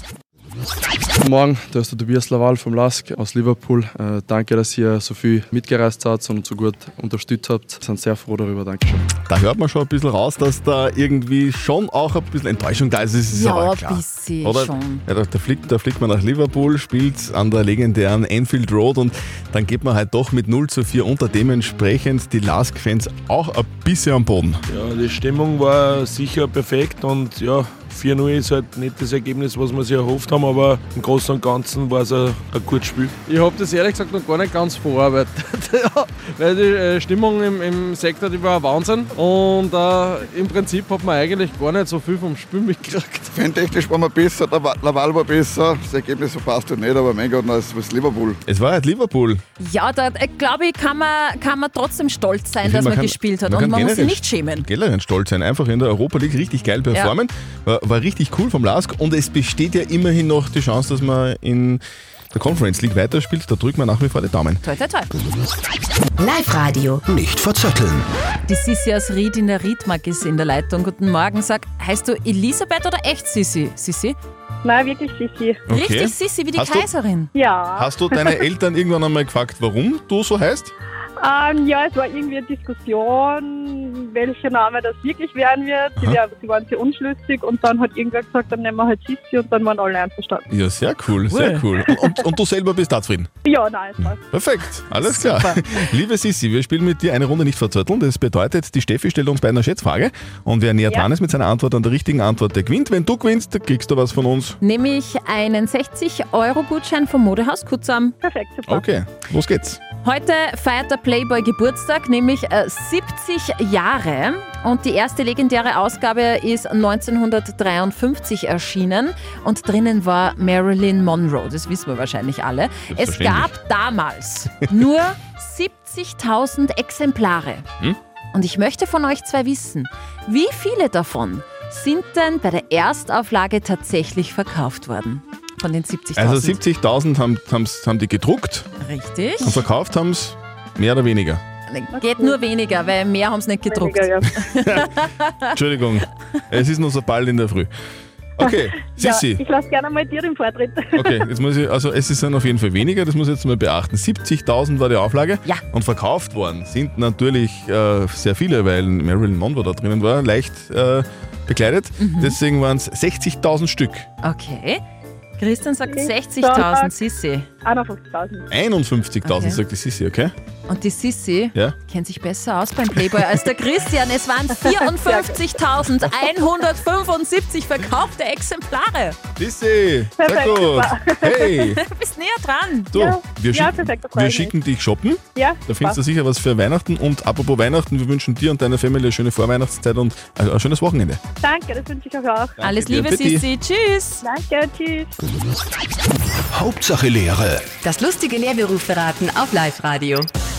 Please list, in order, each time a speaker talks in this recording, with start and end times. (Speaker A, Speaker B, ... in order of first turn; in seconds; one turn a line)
Speaker A: 1.2-9.0
Speaker B: 9.3-24.6
Speaker C: 13.3-15.0
Speaker D: 24.7-33.1
Speaker E: 33.2-43.3
Speaker F: 43.3-48.4
Speaker B: 48.5-49.4
Speaker C: 49.6-54.6
Speaker B: 52.6-61.8
Speaker B: 62.3-64.6
Speaker C: 64.6-65.1
Speaker G: 66.2-67.0
Speaker H: 67.2-68.0
Speaker C: 68.5-74.2
Speaker I: 74.6-75.6
Speaker B: 75.7-76.9
Speaker C: 75.7-77.3
Speaker I: 77.3-78.3
Speaker B: 77.8-80.7
Speaker I: 81.2-90.4
Speaker B: 90.5-93.3
Speaker I: 93.5-94.2
Speaker B: 94.0-104.6
Speaker C: 95.0-95.6
Speaker C: 104.6-108.1
Speaker I: 108.2-108.8
Speaker B: 108.7-109.8
Speaker C: 110.0-127.7
Speaker B: 122.9-123.5
Speaker C: 128.3-136.6
Speaker B: 136.2-138.7
Speaker C: 138.8-139.6
Speaker B: 139.4-141.4
Speaker C: 141.7-145.5
Speaker I: 141.9-142.4
Speaker I: 143.7-144.3
Speaker B: 145.5-147.7
Speaker B: 148.4-149.4
Speaker I: 148.4-151.2
Speaker B: 151.0-164.1
Speaker C: 162.0-162.4
Speaker C: 164.2-164.8
Speaker C: 165.4-167.5
Speaker I: 165.9-166.9
Speaker I: 167.6-168.5
Speaker B: 168.5-170.3
Speaker C: 169.2-169.6
Speaker C: 170.7-179.2
Speaker I: 174.6-175.4
Speaker B: 179.4-181.8
Speaker I: 180.2-181.6
Speaker C: 181.7-182.9
Speaker B: 182.9-191.2
Speaker I: 182.9-184.5
Speaker I: 185.3-186.0
Speaker I: 191.4-192.6
Speaker C: 192.6-194.2
Speaker B: 192.6-193.4
Speaker I: 194.2-195.1
Speaker H: 196.6-197.6
Speaker G: 197.8-200.3